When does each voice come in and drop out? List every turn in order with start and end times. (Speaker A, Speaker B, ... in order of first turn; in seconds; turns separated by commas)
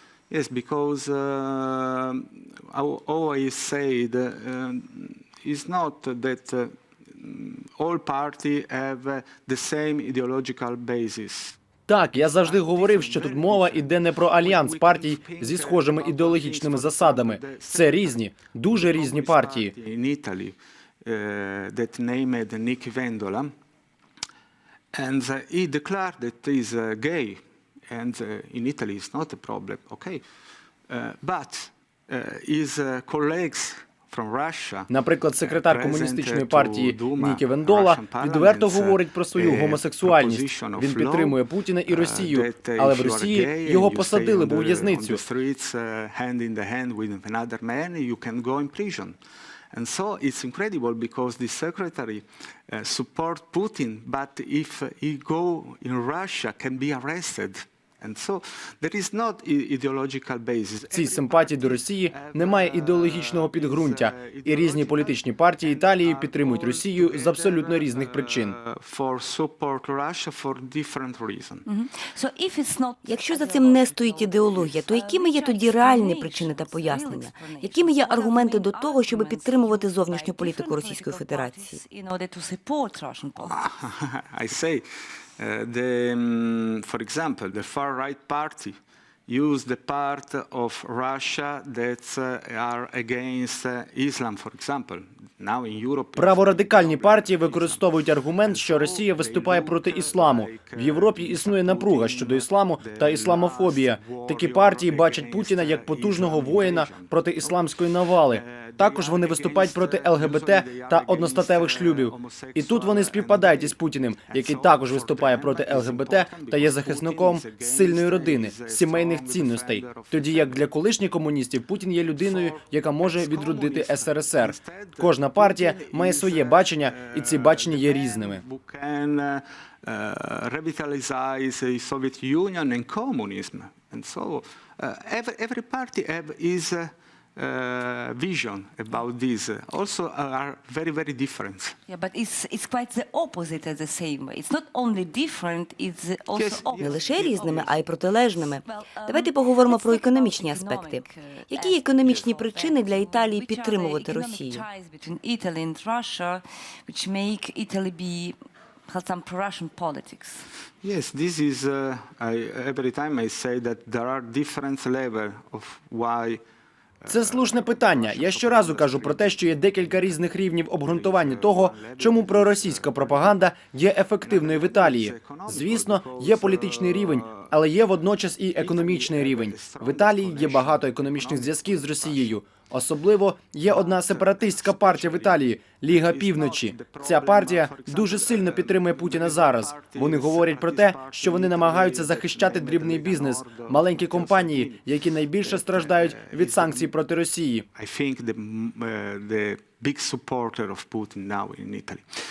Speaker A: 0.3-11.6, Speaker B: 11.9-19.7, Speaker A: 12.4-23.5, Speaker A: 24.9-30.2, Speaker A: 30.9-49.2, Speaker B: 34.9-45.2, Speaker A: 49.7-71.7, Speaker B: 60.9-68.6, Speaker C: 71.7-83.6, Speaker D: 73.0-81.8, Speaker A: 83.5-84.8, Speaker A: 85.4-88.8, Speaker A: 89.3-97.9, Speaker B: 96.2-128.4, Speaker A: 98.5-107.7, Speaker A: 108.2-120.7, Speaker A: 122.2-141.8, Speaker C: 141.9-147.8, Speaker A: 146.3-147.8, Speaker D: 146.8-154.6, Speaker C: 148.6-158.4, Speaker C: 158.9-160.5, Speaker A: 160.8-166.4, Speaker A: 167.0-170.2, Speaker B: 167.1-197.7, Speaker A: 170.8-173.4, Speaker A: 174.2-177.6, Speaker A: 178.6-182.4, Speaker A: 183.7-196.9, Speaker A: 197.8-202.0